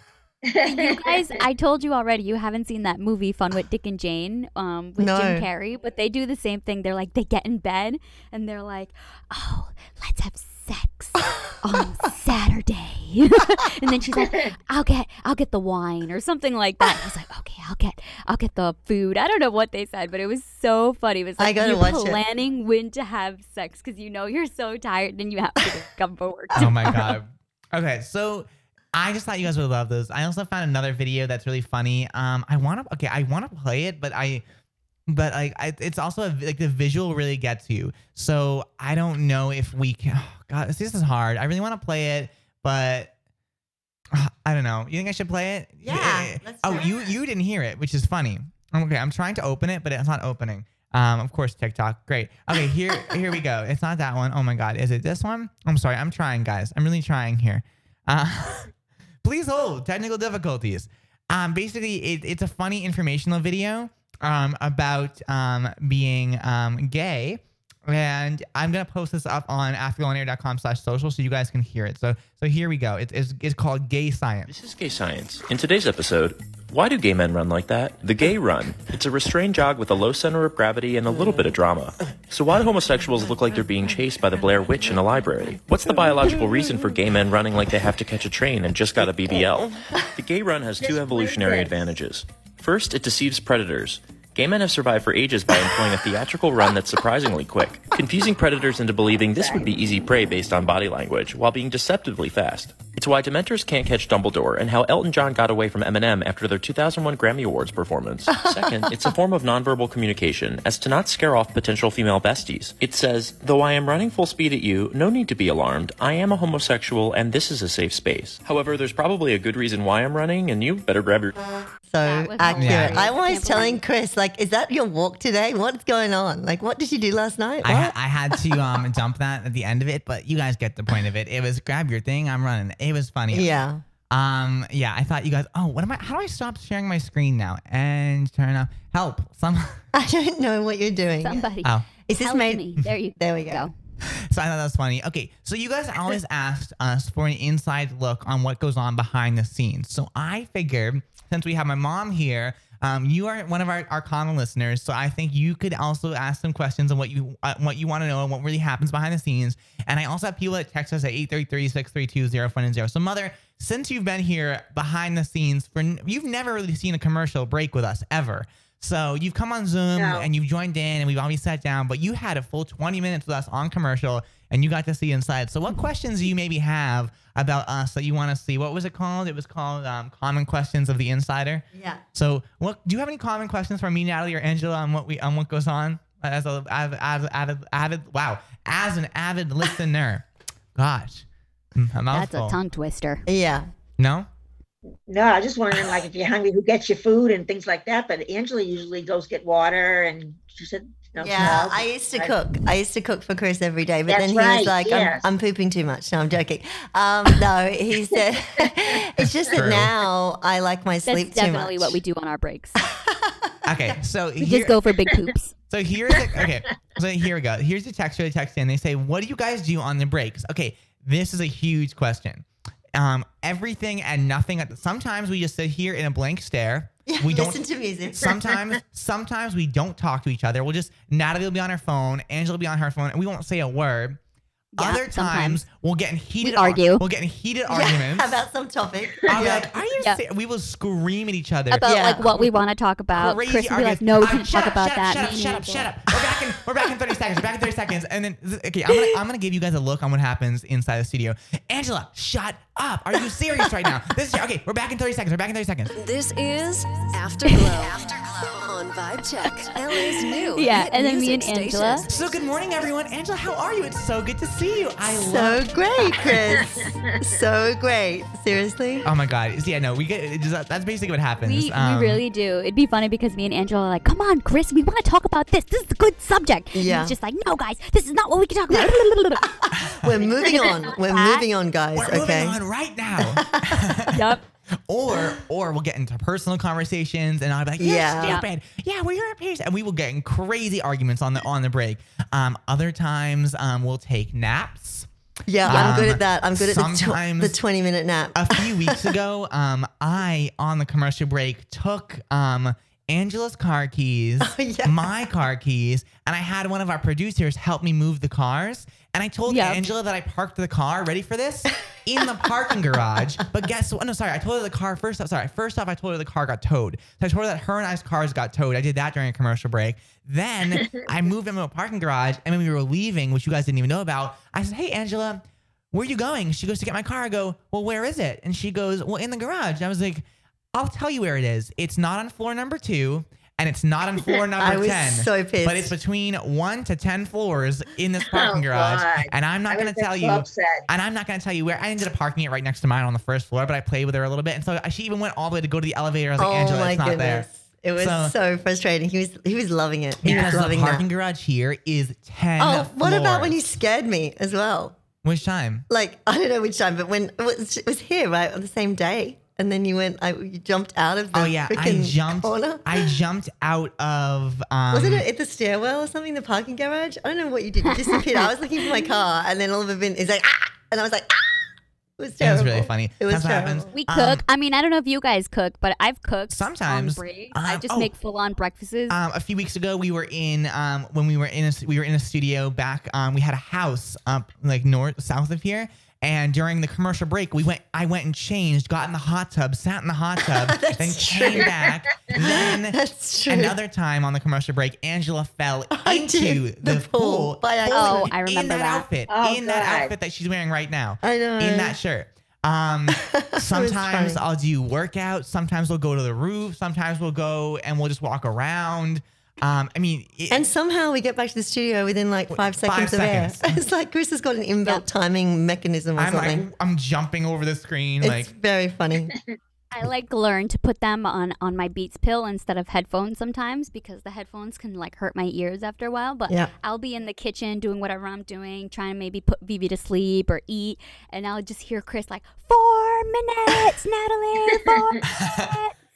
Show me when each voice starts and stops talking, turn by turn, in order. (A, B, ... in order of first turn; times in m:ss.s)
0:00.5-0:01.4 A
0:00.6-0:27.2 B
0:05.0-0:05.5 C
0:14.2-0:14.6 A
0:21.4-0:22.2 C
0:26.5-0:27.0 C
0:26.6-0:34.4 D
0:35.1-0:43.1 D
0:44.1-0:58.7 D
0:45.8-0:47.2 C
0:52.9-0:53.2 C
0:59.2-1:14.5 D
1:14.5-2:01.4 E
1:30.8-1:31.9 A
1:39.3-1:39.7 A
2:01.9-2:08.6 C
2:02.0-2:03.8 B
2:02.6-2:03.1 D
2:07.6-2:13.5 D
2:13.3-2:13.8 C
2:14.1-2:19.8 D
2:19.9-2:21.5 C
2:21.2-2:23.7 B
2:22.1-2:23.7 C
2:24.3-3:11.2 D
2:50.0-2:50.3 A
3:01.7-3:02.0 C
3:11.8-3:12.6 D
3:12.1-3:13.2 B
3:13.3-3:13.7 C
3:14.0-3:14.3 D
3:15.1-3:22.4 A
3:21.2-3:32.0 C
3:24.1-3:25.3 A
3:29.5-3:29.9 D
3:31.1-3:32.8 B
3:32.8-3:34.0 C
3:33.7-3:34.8 D
3:34.4-3:35.5 B
3:35.7-3:54.2 D
3:36.2-3:36.6 A
3:47.1-3:48.3 C
3:54.8-3:55.6 B
3:54.8-3:58.4 D
3:56.4-3:57.0 B
3:57.7-3:59.7 C
3:59.3-4:02.5 D
4:01.7-4:05.9 B
4:01.8-4:02.4 C
4:03.1-4:15.9 D
4:16.0-4:22.5 F
4:20.5-4:22.1 B
4:22.1-4:25.7 D
4:25.2-4:29.1 C
4:26.4-4:27.2 A
4:29.0-4:32.2 D
4:31.4-4:39.6 B
4:36.7-4:37.2 C
4:38.7-4:42.6 C
4:39.8-4:40.1 D
4:40.3-4:41.5 B
4:41.9-4:44.2 D
4:43.2-4:44.0 C
4:44.1-4:44.4 B
4:44.9-4:55.1 D
4:47.8-4:48.4 C
4:55.5-4:59.1 C
4:55.6-4:57.6 D
4:58.4-5:48.3 D
5:04.4-5:05.1 C
5:09.5-5:09.9 B
5:34.6-5:36.0 C
5:38.2-5:40.9 A
5:46.4-5:51.1 C
5:50.2-5:53.6 D
5:52.6-5:55.0 C
5:55.2-5:55.9 D
5:55.9-6:03.2 C
6:01.3-6:05.3 D
6:04.9-6:13.9 C
6:07.9-6:08.5 B
6:12.4-6:14.4 D
6:13.9-6:19.2 B
6:16.5-6:18.1 D
6:19.1-6:50.6 D
6:30.5-6:31.7 C
6:32.3-6:33.8 C
6:35.9-6:38.3 C
6:37.9-6:39.1 B
6:39.3-6:40.1 A
6:41.2-6:42.0 C
6:43.1-6:44.4 C
6:50.5-6:56.7 C
6:52.5-6:53.8 D
6:56.2-6:58.5 D
6:58.2-6:59.3 C
6:59.9-7:16.0 B
7:14.8-7:15.2 A
7:15.2-7:15.8 D